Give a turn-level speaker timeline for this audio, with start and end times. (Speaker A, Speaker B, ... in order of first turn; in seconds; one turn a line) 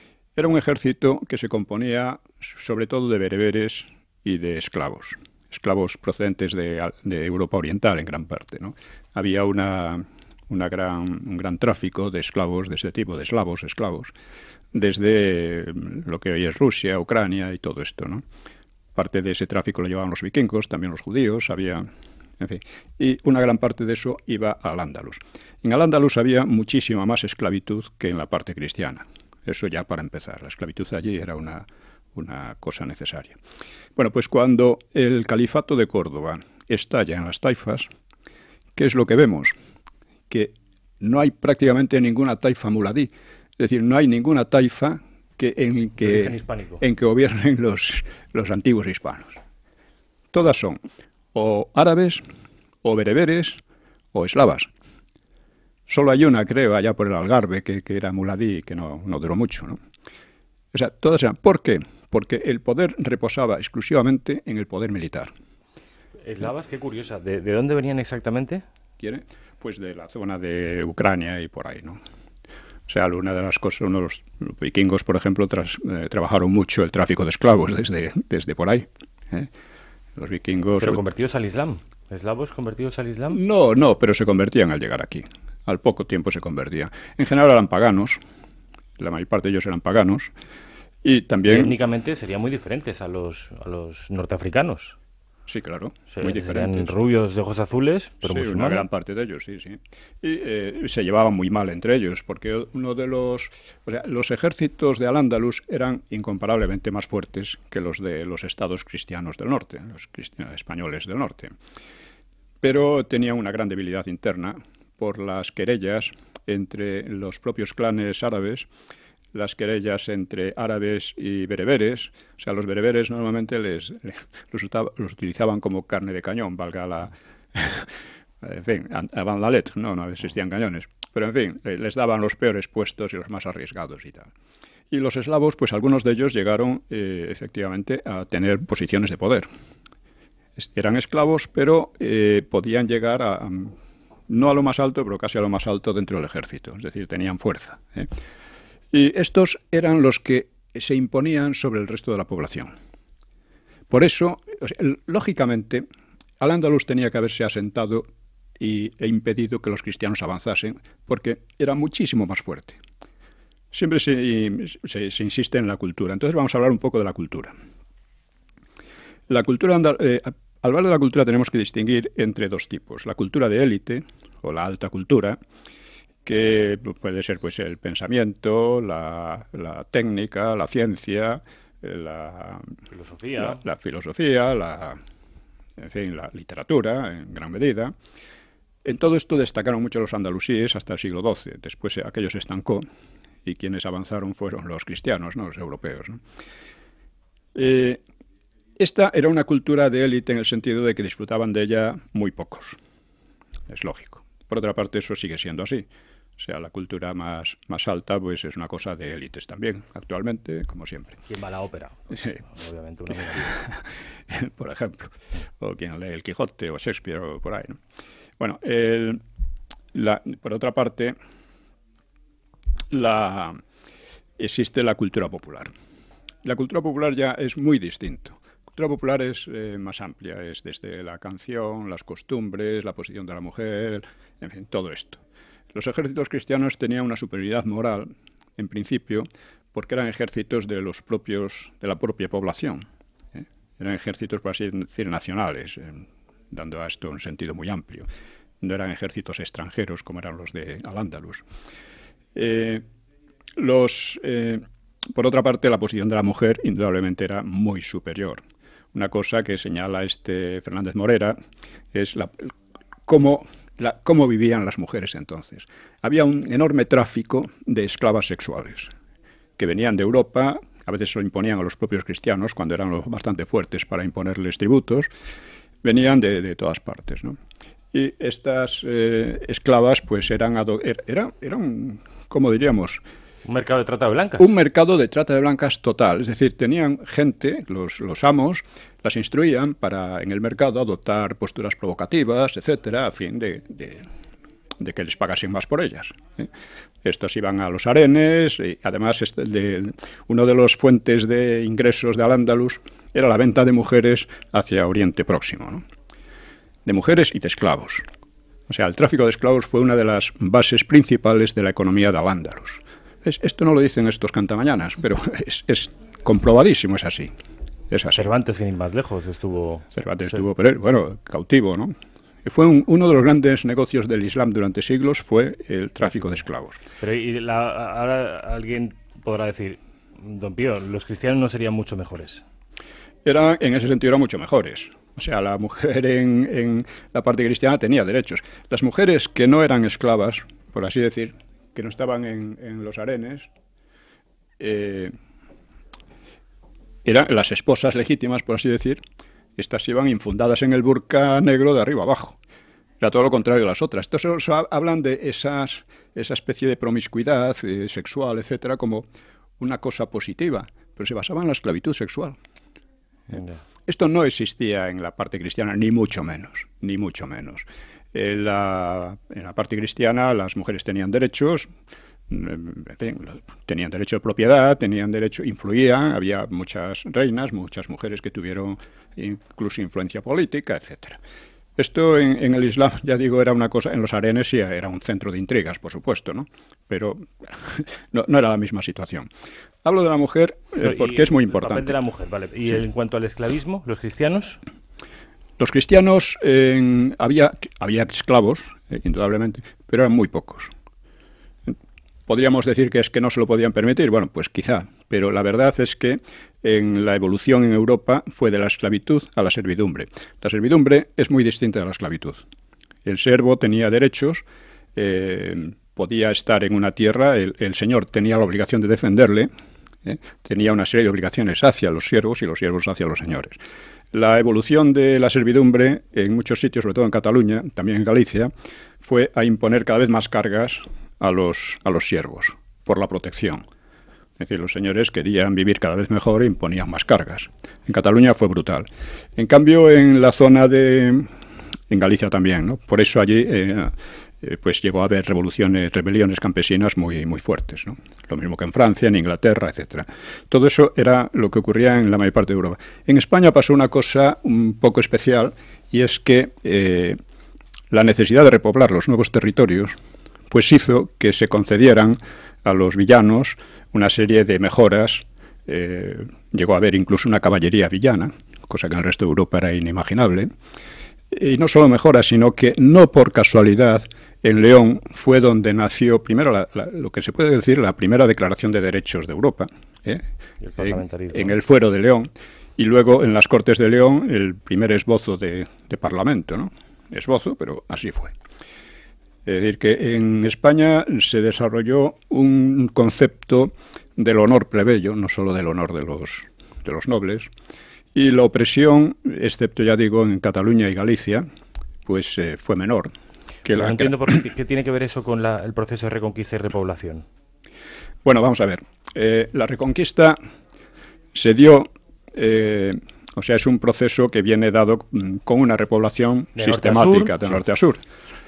Speaker A: 0.3-14.1
Speaker A: 14.7-18.2
Speaker A: 18.9-21.9
Speaker A: 22.4-33.4
Speaker A: 34.0-37.9
Speaker A: 38.8-39.5
Speaker A: 40.3-49.4
Speaker B: 46.0-46.8
Speaker A: 50.3-50.8
Speaker A: 51.3-52.2
Speaker A: 52.8-53.6
Speaker A: 54.1-54.7
Speaker A: 55.9-59.8
Speaker A: 60.7-65.3
Speaker B: 66.2-68.6
Speaker A: 69.0-72.0
Speaker A: 72.9-79.5
Speaker A: 80.2-81.0
Speaker B: 80.8-83.4
Speaker A: 83.3-88.2
Speaker A: 89.0-90.3
Speaker A: 91.0-91.8
Speaker B: 91.4-95.0
Speaker A: 95.5-96.9
Speaker B: 96.1-98.8
Speaker A: 98.2-111.5
Speaker A: 112.6-118.7
Speaker A: 119.3-134.3
Speaker A: 134.9-139.5
Speaker A: 140.6-143.8
Speaker A: 144.3-148.1
Speaker A: 148.9-152.7
Speaker A: 153.9-155.8
Speaker A: 156.4-158.1
Speaker A: 158.6-162.8
Speaker A: 163.7-167.5
Speaker A: 169.3-175.4
Speaker A: 176.2-182.7
Speaker B: 182.9-183.6
Speaker A: 183.4-185.0
Speaker A: 185.8-187.9
Speaker A: 188.8-192.8
Speaker A: 193.4-196.2
Speaker A: 197.5-198.0
Speaker A: 198.8-202.8
Speaker A: 203.7-205.9
Speaker A: 206.4-211.2
Speaker B: 211.2-213.6
Speaker A: 213.4-217.8
Speaker A: 218.4-219.2
Speaker A: 219.9-221.2
Speaker A: 222.9-223.6
Speaker A: 224.4-225.7
Speaker A: 226.4-235.2
Speaker A: 235.7-248.1
Speaker A: 248.6-251.4
Speaker A: 252.3-252.8
Speaker A: 253.6-258.4
Speaker A: 258.9-261.4
Speaker A: 261.9-262.5
Speaker A: 263.1-268.9
Speaker A: 269.6-275.1
Speaker A: 275.8-277.4
Speaker A: 277.9-283.0
Speaker B: 283.4-284.5
Speaker A: 284.4-294.1
Speaker A: 294.8-296.5
Speaker A: 297.0-305.8
Speaker A: 306.9-308.0
Speaker A: 308.7-317.3
Speaker A: 317.9-318.3
Speaker B: 318.1-319.9
Speaker A: 319.9-326.8
Speaker B: 327.0-332.4
Speaker A: 333.2-343.5
Speaker A: 344.6-345.1
Speaker A: 347.0-349.0
Speaker A: 349.6-352.4
Speaker A: 353.0-359.1
Speaker A: 359.6-362.4
Speaker A: 363.3-371.7
Speaker B: 363.3-363.6
Speaker A: 372.3-381.2
Speaker A: 381.8-389.3
Speaker A: 389.8-391.9
Speaker B: 390.8-394.6
Speaker A: 395.6-400.7
Speaker A: 401.6-412.4
Speaker A: 413.0-414.4
Speaker A: 414.9-419.5
Speaker A: 420.0-423.6
Speaker A: 424.1-428.5
Speaker A: 429.0-433.6
Speaker A: 434.4-441.3
Speaker A: 441.9-457.2
Speaker A: 457.9-460.0
Speaker A: 460.5-470.5
Speaker A: 471.3-480.2
Speaker B: 480.6-481.6
Speaker A: 480.8-488.3
Speaker A: 489.4-497.5
Speaker A: 498.1-501.4
Speaker A: 502.1-503.1
Speaker A: 503.6-504.4
Speaker B: 503.7-507.2
Speaker A: 508.2-510.4
Speaker A: 511.3-518.0
Speaker B: 516.6-517.6